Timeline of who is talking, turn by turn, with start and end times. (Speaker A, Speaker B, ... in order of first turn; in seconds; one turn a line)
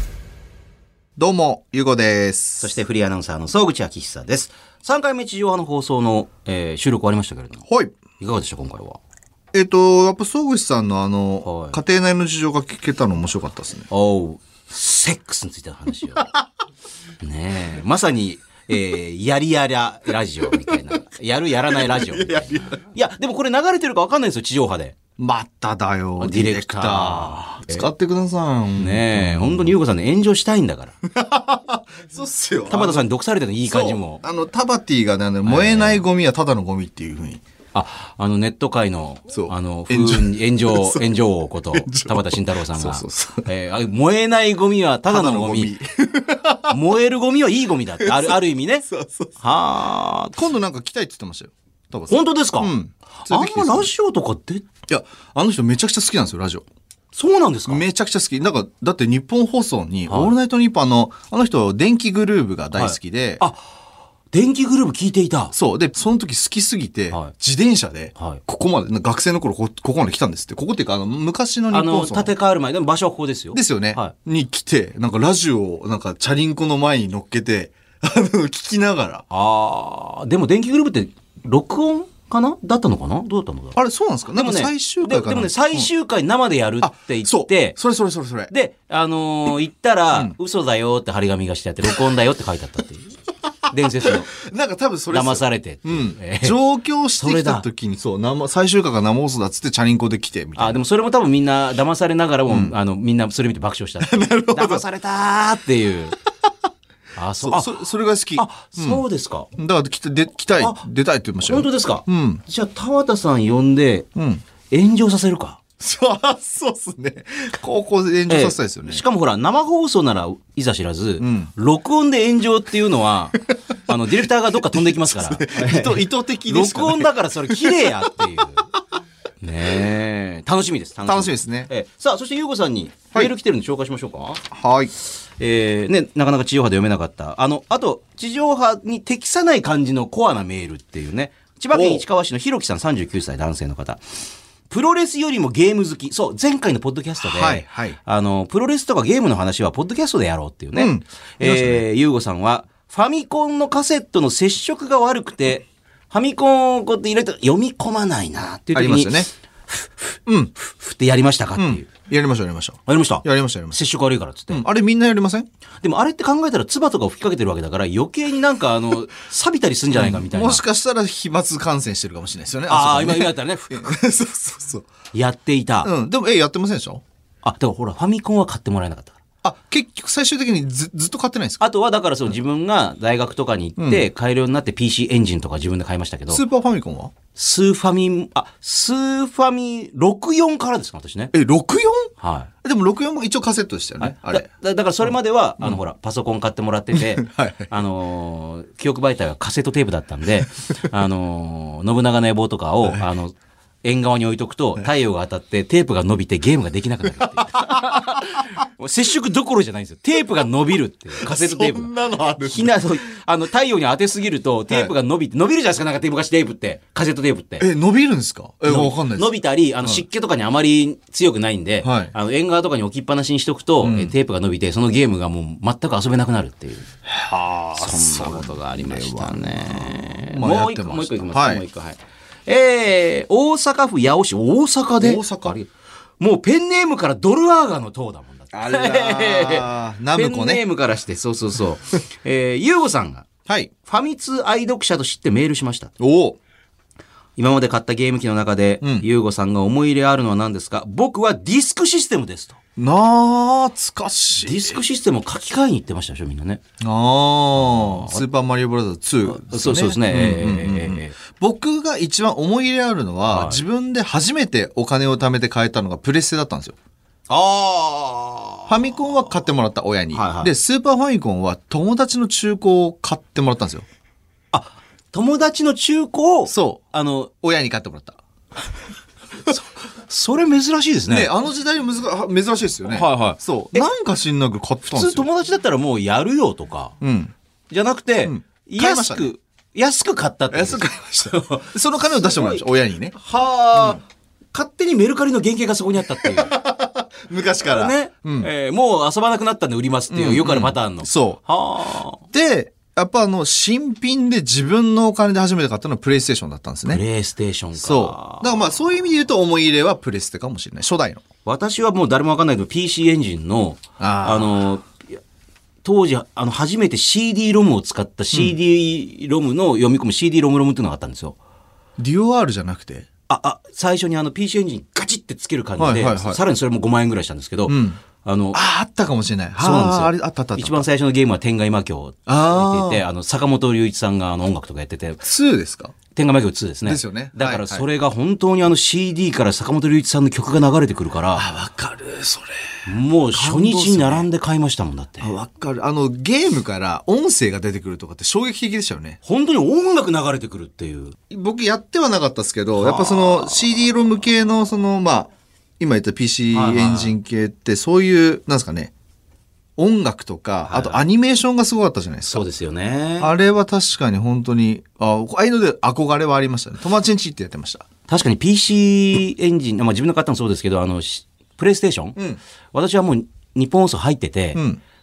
Speaker A: 1.2-2.7
Speaker B: 2.6-7.6
Speaker A: 7.7-8.0
Speaker B: 8.2-9.0
Speaker A: 9.5-13.9
Speaker B: 11.4-11.8
Speaker B: 13.9-16.3
Speaker B: 17.2-24.9
Speaker A: 21.7-22.8
Speaker A: 25.2-29.7
Speaker B: 26.2-27.9
Speaker B: 28.8-30.9
Speaker A: 31.0-33.0
Speaker B: 32.7-34.2
Speaker A: 33.7-37.4
Speaker B: 35.4-36.0
Speaker B: 37.7-45.7
Speaker A: 39.3-41.0
Speaker A: 41.7-43.5
Speaker A: 45.1-46.8
Speaker B: 46.7-48.9
Speaker A: 48.0-49.3
Speaker B: 49.4-50.4
Speaker A: 50.3-53.9
Speaker B: 52.1-52.7
Speaker B: 53.3-54.6
Speaker A: 54.9-56.6
Speaker B: 57.1-57.8
Speaker A: 57.7-63.4
Speaker B: 60.1-60.3
Speaker B: 62.7-63.6
Speaker B: 64.3-65.5
Speaker A: 65.5-72.3
Speaker B: 68.2-68.4
Speaker B: 71.7-74.1
Speaker A: 73.5-79.2
Speaker B: 79.3-83.8
Speaker A: 83.8-85.9
Speaker B: 84.3-87.8
Speaker A: 86.8-88.5
Speaker B: 88.5-93.1
Speaker B: 93.7-94.3
Speaker A: 93.7-100.8
Speaker B: 95.1-96.6
Speaker B: 97.2-97.6
Speaker B: 100.6-106.2
Speaker A: 102.5-102.7
Speaker A: 104.0-104.8
Speaker B: 107.2-107.7
Speaker A: 107.4-109.0
Speaker B: 108.3-109.5
Speaker A: 109.5-112.4
Speaker B: 111.4-114.1
Speaker A: 114.2-114.4
Speaker B: 114.7-115.6
Speaker A: 115.8-119.0
Speaker B: 118.3-128.7
Speaker A: 121.2-121.5
Speaker A: 124.5-127.9
Speaker B: 129.4-134.4
Speaker A: 131.1-131.7
Speaker A: 134.5-134.9
Speaker B: 135.4-144.0
Speaker A: 141.7-142.0
Speaker B: 144.7-161.9
Speaker A: 147.2-148.0
Speaker A: 150.8-151.8
Speaker A: 158.7-159.3
Speaker A: 160.3-160.5
Speaker A: 161.6-163.8
Speaker B: 162.9-164.6
Speaker A: 164.5-165.5
Speaker B: 165.8-170.6
Speaker A: 169.9-174.9
Speaker B: 172.7-173.9
Speaker B: 175.1-175.9
Speaker A: 175.8-177.0
Speaker B: 177.4-179.2
Speaker A: 179.4-181.6
Speaker B: 181.6-186.4
Speaker A: 183.8-184.1
Speaker A: 186.3-187.1
Speaker B: 187.3-191.3
Speaker A: 191.3-192.1
Speaker B: 192.2-192.5
Speaker A: 192.6-194.4
Speaker B: 194.0-217.7
Speaker A: 196.9-197.7
Speaker A: 207.2-208.5
Speaker A: 211.2-212.9
Speaker A: 217.6-219.3
Speaker B: 218.6-226.9
Speaker A: 221.8-222.1
Speaker A: 223.8-224.1
Speaker A: 227.1-231.6
Speaker B: 227.8-235.7
Speaker A: 235.0-235.6
Speaker B: 236.2-243.3
Speaker A: 238.5-240.6
Speaker A: 243.5-243.7
Speaker B: 243.8-245.9
Speaker A: 246.0-246.4
Speaker B: 247.4-252.6
Speaker A: 248.8-249.1
Speaker A: 252.8-254.8
Speaker B: 254.4-256.6
Speaker A: 256.8-266.8
Speaker B: 257.6-258.2
Speaker B: 259.3-261.2
Speaker B: 263.3-263.6
Speaker B: 267.3-268.8
Speaker A: 268.7-273.9
Speaker B: 270.1-270.5
Speaker B: 274.5-277.3
Speaker A: 276.5-276.8
Speaker A: 277.4-278.2
Speaker B: 279.5-281.3
Speaker A: 281.1-285.3
Speaker B: 282.9-283.9
Speaker B: 284.9-286.9
Speaker A: 287.0-287.3
Speaker B: 287.7-292.6
Speaker A: 288.2-289.3
Speaker A: 290.5-294.0
Speaker B: 293.2-294.0
Speaker B: 294.5-296.5
Speaker A: 296.2-298.5
Speaker B: 297.6-302.2
Speaker A: 300.1-301.4
Speaker A: 302.3-307.0
Speaker B: 306.9-308.6
Speaker A: 307.8-311.2
Speaker B: 311.4-315.2
Speaker A: 314.0-314.6
Speaker B: 315.8-321.4
Speaker A: 322.0-323.1
Speaker B: 323.3-328.6
Speaker A: 325.8-326.4
Speaker A: 327.7-328.0
Speaker A: 328.5-330.9
Speaker B: 329.6-335.2
Speaker A: 332.3-333.0
Speaker A: 335.2-335.9
Speaker B: 336.1-341.5
Speaker A: 336.8-337.9
Speaker A: 341.3-342.7
Speaker B: 342.9-345.3
Speaker A: 343.3-344.3
Speaker A: 345.2-349.2
Speaker B: 349.2-351.2
Speaker A: 351.3-358.9
Speaker B: 352.8-353.8
Speaker B: 356.5-357.1
Speaker A: 359.8-362.4
Speaker B: 360.6-361.0
Speaker B: 362.3-363.3
Speaker A: 363.2-367.9
Speaker B: 368.1-372.2
Speaker B: 372.7-374.6
Speaker A: 374.5-374.8